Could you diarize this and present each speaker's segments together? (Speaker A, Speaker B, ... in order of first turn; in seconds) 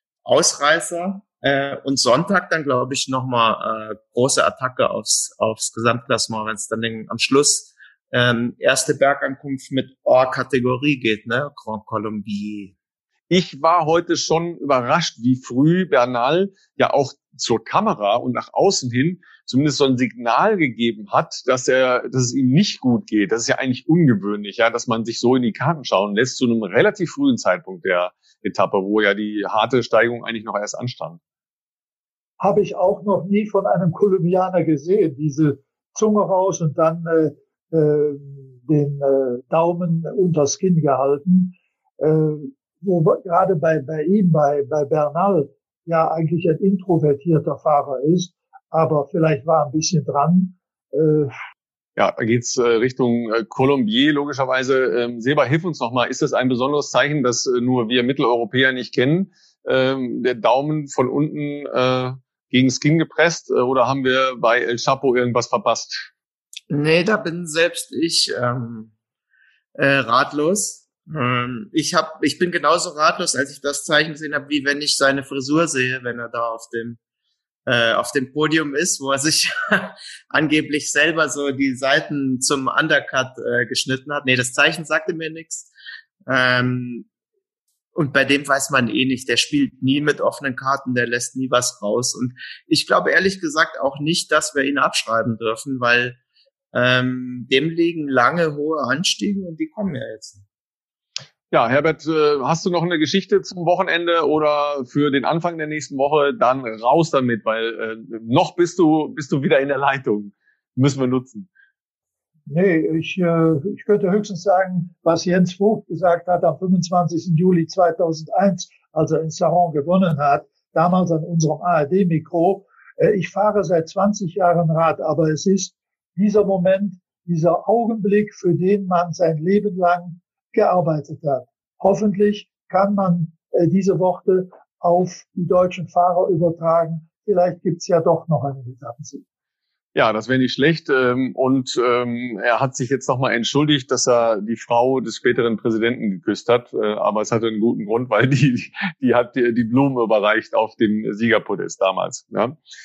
Speaker A: 0.2-12.7, 66.7-68.9, 69.7-77.0, 77.7-85.7, 86.3-87.1, 87.9-96.2, 96.7-100.4
Speaker B: 13.3-31.2, 52.0-66.1, 101.5-111.5, 139.9-152.6
Speaker C: 32.4-51.3, 112.5-139.2